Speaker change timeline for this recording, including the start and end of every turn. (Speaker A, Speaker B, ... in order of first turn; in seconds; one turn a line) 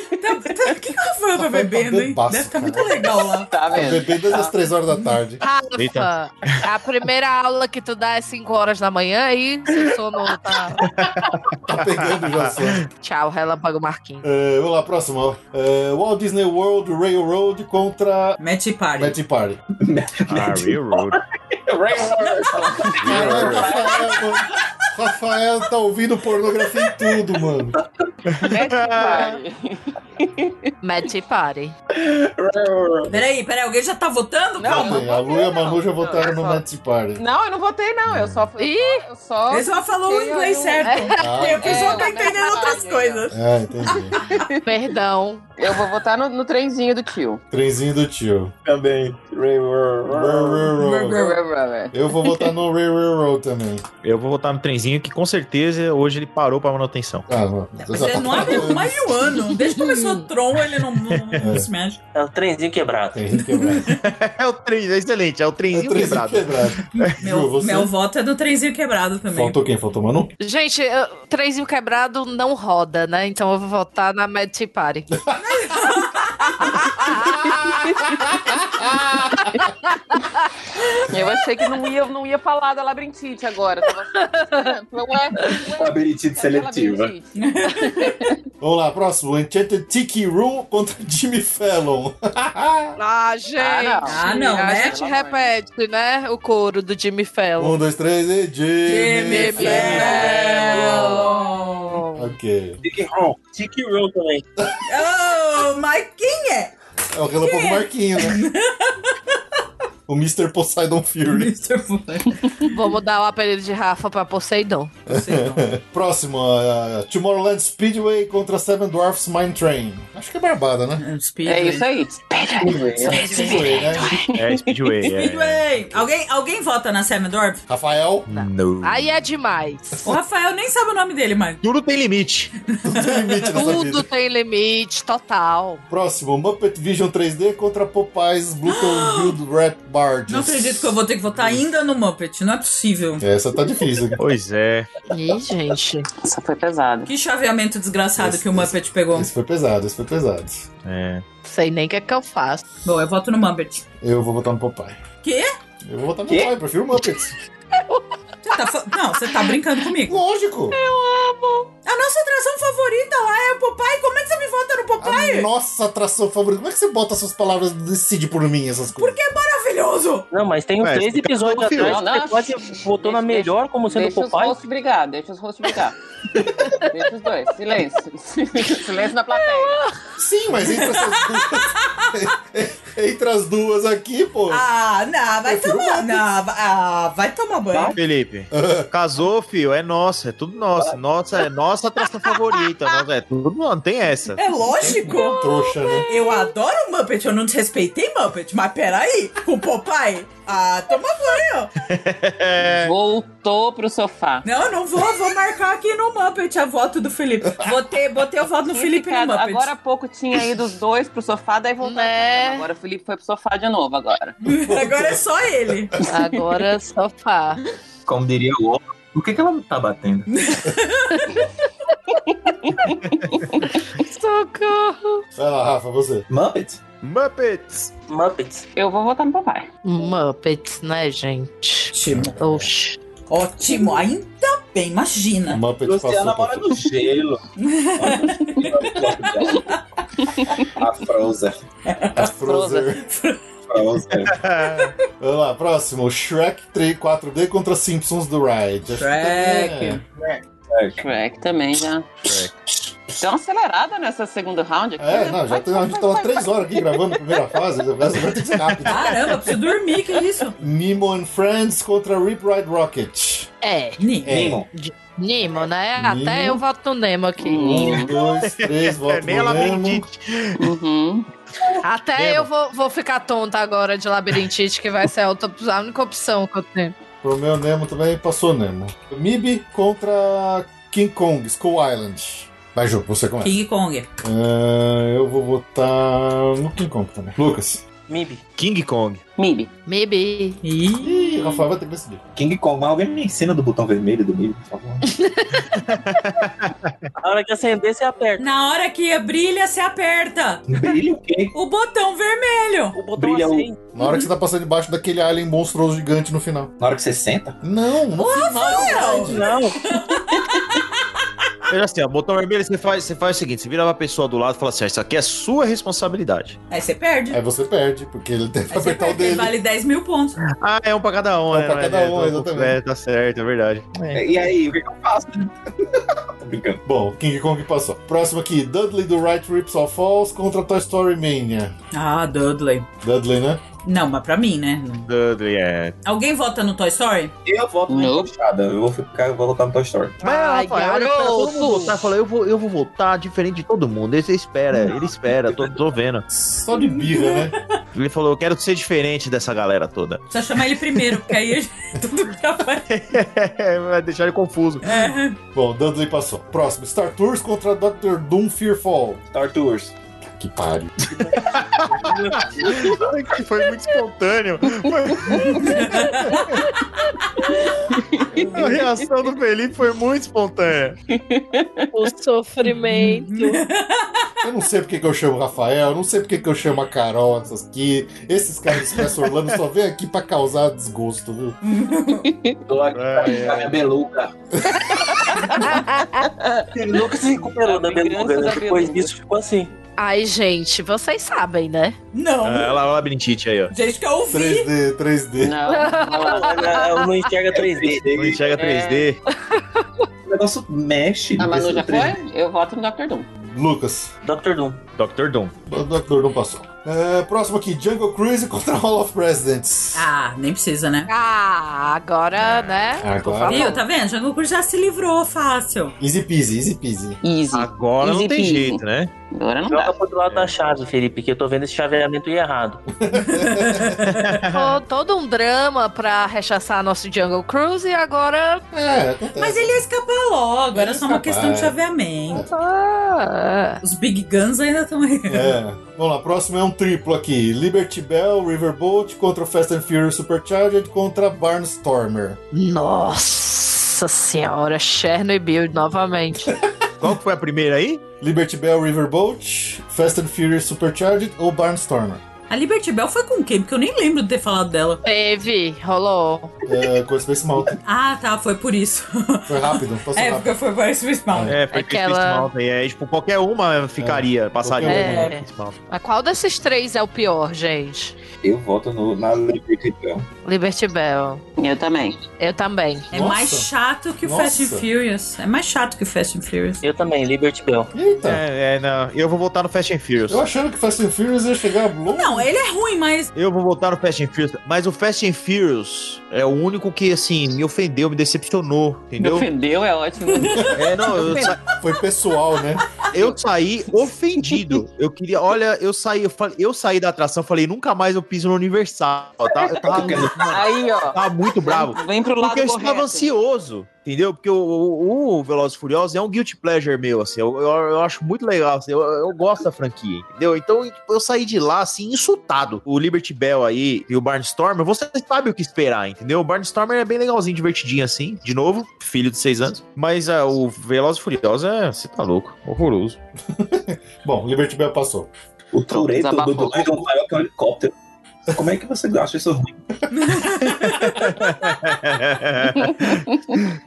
Speaker A: 0.2-3.5
Speaker B: 1.3-3.1
Speaker C: 3.5-4.5
Speaker B: 3.7-5.4
Speaker D: 5.4-10.8
Speaker E: 5.8-6.7
Speaker E: 10.9-12.8
Speaker B: 11.6-12.8
Speaker D: 13.0-14.2
Speaker B: 14.2-18.4
Speaker A: 18.4-19.2
Speaker B: 19.0-19.6
Speaker F: 19.8-24.0
Speaker E: 20.3-21.2
Speaker C: 22.5-24.0
Speaker E: 22.9-23.7
Speaker B: 23.0-27.8
Speaker E: 28.3-29.4
Speaker C: 28.4-30.7
Speaker D: 30.8-31.7
Speaker F: 31.9-33.1
Speaker A: 33.1-35.0
Speaker C: 34.6-36.6
Speaker B: 34.6-37.2
Speaker C: 37.2-43.3
Speaker B: 38.1-38.5
Speaker D: 38.6-39.0
Speaker A: 39.5-43.3
Speaker D: 40.8-41.4
Speaker B: 41.2-42.1
Speaker D: 42.3-42.6
Speaker B: 43.3-44.2
Speaker C: 44.1-44.7
Speaker D: 44.6-45.5
Speaker C: 45.6-47.4
Speaker B: 47.5-48.5
Speaker F: 48.6-50.8
Speaker B: 50.1-51.2
Speaker A: 50.8-51.4
Speaker C: 51.0-52.5
Speaker B: 51.9-53.8
Speaker E: 54.0-57.3
Speaker B: 57.3-59.2
Speaker A: 57.9-62.0
Speaker D: 59.5-60.2
Speaker E: 61.1-61.4
Speaker B: 61.4-61.7
Speaker G: 62.1-63.2
Speaker B: 63.1-63.9
Speaker A: 63.5-64.0
Speaker E: 63.9-67.1
Speaker B: 65.7-67.9
Speaker A: 67.0-69.5
Speaker B: 69.3-70.3
Speaker D: 70.4-75.1
Speaker B: 75.1-75.4
Speaker A: 75.4-76.7
Speaker D: 76.6-77.7
Speaker B: 77.5-79.7
Speaker D: 80.1-80.4
Speaker C: 81.0-88.4
Speaker D: 84.1-84.7
Speaker F: 85.7-87.1
Speaker A: 87.3-88.2
Speaker B: 88.6-93.0
Speaker D: 93.0-97.8
Speaker C: 93.6-95.5
Speaker A: 94.0-95.0
Speaker B: 97.6-101.3
Speaker A: 98.8-102.0
Speaker D: 99.2-102.3
Speaker B: 102.1-102.8
Speaker F: 102.8-103.5
Speaker G: 103.5-104.4
Speaker A: 104.8-106.7
Speaker B: 107.1-108.4
Speaker A: 107.4-109.1
Speaker B: 110.1-111.5
Speaker A: 111.3-112.6
Speaker D: 112.6-115.0
Speaker B: 115.1-121.0
Speaker A: 115.1-115.7
Speaker A: 121.0-121.9
Speaker C: 121.4-125.1
Speaker F: 122.6-123.0
Speaker A: 123.0-124.0
Speaker B: 123.0-124.1
Speaker D: 123.3-123.9
Speaker E: 124.2-126.1
Speaker A: 125.0-127.6
Speaker B: 127.7-128.3
Speaker E: 128.3-129.1
Speaker D: 128.3-130.0
Speaker A: 130.0-131.6
Speaker E: 131.6-132.5
Speaker A: 132.8-133.5
Speaker B: 132.8-134.1
Speaker D: 133.5-135.8
Speaker B: 135.9-141.6
Speaker A: 138.7-139.4
Speaker A: 140.3-143.2
Speaker B: 143.2-144.2
Speaker E: 144.2-144.9
Speaker D: 145.1-146.1
Speaker C: 146.2-147.1
Speaker A: 147.1-149.3
Speaker B: 148.2-150.6
Speaker E: 150.8-151.2
Speaker D: 151.4-152.6
Speaker A: 152.8-153.8
Speaker B: 154.0-155.0
Speaker A: 155.2-155.5
Speaker B: 155.8-157.3
Speaker F: 156.3-156.5
Speaker D: 157.7-158.1
Speaker A: 158.4-160.2
Speaker D: 159.2-159.5
Speaker B: 160.1-160.8
Speaker D: 160.7-161.7
Speaker A: 161.8-165.5
Speaker B: 165.0-169.2
Speaker A: 168.9-170.3
Speaker G: 170.3-174.6
Speaker E: 170.8-172.0
Speaker C: 171.8-176.0
Speaker C: 176.9-179.8
Speaker D: 179.3-179.9
Speaker B: 180.2-184.6
Speaker A: 180.7-181.7
Speaker A: 184.5-188.0
Speaker B: 185.4-186.2
Speaker F: 187.7-188.0
Speaker E: 187.9-194.4
Speaker B: 188.5-188.9
Speaker A: 194.4-195.4
Speaker D: 194.9-196.5
Speaker B: 195.3-196.1
Speaker A: 196.1-201.7
Speaker E: 201.8-202.9
Speaker C: 202.6-204.4
Speaker A: 204.4-209.7
Speaker C: 208.7-214.3
Speaker D: 211.8-212.7
Speaker A: 214.4-215.9
Speaker B: 214.4-215.8
Speaker D: 216.1-217.6
Speaker C: 216.1-216.4
Speaker F: 218.1-220.3
Speaker A: 220.3-221.3
Speaker D: 221.1-221.4
Speaker C: 222.6-223.6
Speaker E: 223.1-223.3
Speaker D: 223.7-225.2
Speaker B: 225.4-226.2
Speaker F: 226.3-226.8
Speaker E: 227.0-227.9
Speaker G: 228.1-228.7
Speaker C: 228.7-229.7
Speaker D: 229.8-233.0
Speaker A: 231.9-232.4
Speaker B: 232.1-232.7
Speaker A: 233.3-235.6
Speaker B: 235.5-236.8
Speaker F: 235.8-237.4
Speaker A: 237.6-239.8
Speaker F: 237.9-239.7
Speaker C: 240.2-240.7
Speaker F: 240.7-241.6
Speaker A: 241.8-242.3
Speaker B: 242.1-243.0
Speaker C: 242.4-242.9
Speaker A: 243.0-243.4
Speaker F: 243.7-244.4
Speaker E: 244.2-244.9
Speaker B: 245.2-250.0
Speaker A: 248.9-250.0
Speaker F: 250.2-251.0
Speaker C: 251.0-252.1
Speaker E: 252.2-252.7
Speaker C: 253.1-257.2
Speaker B: 255.0-259.3
Speaker E: 258.6-259.2
Speaker A: 258.9-260.5
Speaker B: 260.6-263.5
Speaker D: 263.6-264.1
Speaker A: 264.0-264.3
Speaker B: 264.2-264.6
Speaker F: 264.2-264.7
Speaker D: 265.1-268.0
Speaker B: 265.9-266.6
Speaker C: 267.4-268.1
Speaker B: 267.5-270.0
Speaker E: 268.2-270.7
Speaker C: 270.6-271.3
Speaker D: 271.8-276.9
Speaker E: 272.2-272.5
Speaker B: 277.2-283.6
Speaker A: 283.4-284.1
Speaker B: 284.2-287.8
Speaker G: 288.1-288.4
Speaker E: 288.6-289.2
Speaker C: 289.4-289.7
Speaker D: 289.9-290.6
Speaker A: 290.6-291.6
Speaker B: 291.0-292.2
Speaker F: 292.4-295.1
Speaker D: 295.1-295.6
Speaker E: 295.8-296.9
Speaker G: 297.2-298.4
Speaker A: 298.4-300.6
Speaker F: 300.7-301.5
Speaker A: 301.5-303.0
Speaker G: 302.9-303.8
Speaker F: 303.1-303.7
Speaker B: 303.9-306.7
Speaker A: 304.0-304.3
Speaker F: 306.8-307.6
Speaker B: 307.6-309.5
Speaker A: 308.2-310.7
Speaker G: 309.2-309.8
Speaker E: 311.7-316.6
Speaker A: 316.7-317.4
Speaker B: 317.3-319.5
Speaker A: 318.7-320.4
Speaker E: 320.5-324.3
Speaker B: 321.5-322.8
Speaker F: 324.1-326.8
Speaker B: 326.8-331.7
Speaker A: 331.9-332.9
Speaker B: 333.0-333.6
Speaker A: 333.8-335.1
Speaker E: 335.1-335.9
Speaker A: 336.0-337.3
Speaker F: 337.4-340.2
Speaker C: 337.9-338.3
Speaker D: 340.2-342.1
Speaker E: 340.2-346.2
Speaker B: 346.3-347.6
Speaker A: 346.7-347.6
Speaker E: 347.9-351.3
Speaker A: 350.3-352.9
Speaker E: 352.9-355.1
Speaker A: 354.8-355.4
Speaker B: 355.5-359.2
Speaker F: 359.3-359.9
Speaker B: 360.4-361.1
Speaker E: 361.4-366.6
Speaker G: 362.0-362.8
Speaker A: 365.3-366.4
Speaker D: 366.3-366.8
Speaker C: 367.9-369.0
Speaker E: 368.5-371.0
Speaker C: 371.1-371.9
Speaker D: 371.9-373.6
Speaker A: 372.6-374.3
Speaker B: 374.4-381.6
Speaker E: 378.9-379.5
Speaker A: 381.6-382.3
Speaker C: 382.1-382.6
Speaker F: 382.7-384.3
Speaker E: 382.9-383.8
Speaker B: 384.6-385.4
Speaker D: 385.6-386.3
Speaker C: 386.2-389.1
Speaker G: 386.8-389.7
Speaker D: 390.0-391.9
Speaker A: 392.1-392.8
Speaker E: 392.4-393.7
Speaker A: 393.7-394.7
Speaker B: 394.3-395.6
Speaker C: 395.4-396.9
Speaker D: 395.6-397.0
Speaker G: 396.1-398.1
Speaker F: 397.5-398.6
Speaker E: 398.1-399.2
Speaker C: 398.5-399.1
Speaker D: 399.3-400.0
Speaker F: 400.3-402.2
Speaker C: 401.4-403.3
Speaker B: 403.4-404.1
Speaker G: 404.2-404.8
Speaker E: 404.9-405.5
Speaker B: 405.7-410.1
Speaker A: 409.9-411.1
Speaker D: 411.1-413.8
Speaker E: 412.4-412.8
Speaker B: 413.0-413.7
Speaker A: 413.4-415.9
Speaker B: 416.0-417.2
Speaker C: 417.2-418.8
Speaker E: 417.5-419.1
Speaker C: 419.3-419.9
Speaker G: 419.7-422.8
Speaker B: 422.9-424.1
Speaker A: 423.2-424.4
Speaker E: 424.1-424.8
Speaker D: 424.5-428.6
Speaker B: 428.7-429.8
Speaker A: 429.4-432.4
Speaker B: 430.7-431.7
Speaker D: 432.3-433.8
Speaker A: 433.8-435.6
Speaker B: 435.3-442.4
Speaker D: 442.5-446.5
Speaker E: 447.0-448.0
Speaker B: 448.2-452.2
Speaker A: 452.5-455.0
Speaker D: 455.0-456.5
Speaker B: 456.6-457.8
Speaker A: 457.9-461.6
Speaker B: 459.5-460.5
Speaker B: 461.3-461.6
Speaker E: 461.5-465.8
Speaker D: 461.7-462.5
Speaker B: 464.0-465.3
Speaker D: 464.8-468.1
Speaker F: 468.4-470.2
Speaker D: 470.4-471.4
Speaker C: 471.6-472.2
Speaker D: 472.4-473.1
Speaker B: 473.1-473.7
Speaker A: 473.1-476.8
Speaker B: 474.2-474.9
Speaker G: 476.8-477.9
Speaker B: 477.9-478.4
Speaker E: 478.2-480.4
Speaker B: 480.3-482.5
Speaker A: 482.1-483.3
Speaker E: 483.3-489.5
Speaker C: 489.2-491.5
Speaker A: 490.3-490.8
Speaker E: 490.7-491.6
Speaker B: 491.7-492.8
Speaker C: 493.1-493.4
Speaker E: 493.1-523.2
Speaker C: 499.5-503.3
Speaker F: 499.7-500.7
Speaker B: 523.6-525.3
Speaker F: 525.7-527.9
Speaker C: 525.9-527.0
Speaker F: 528.5-529.8
Speaker A: 530.1-531.3
Speaker E: 530.7-533.2
Speaker C: 532.8-533.4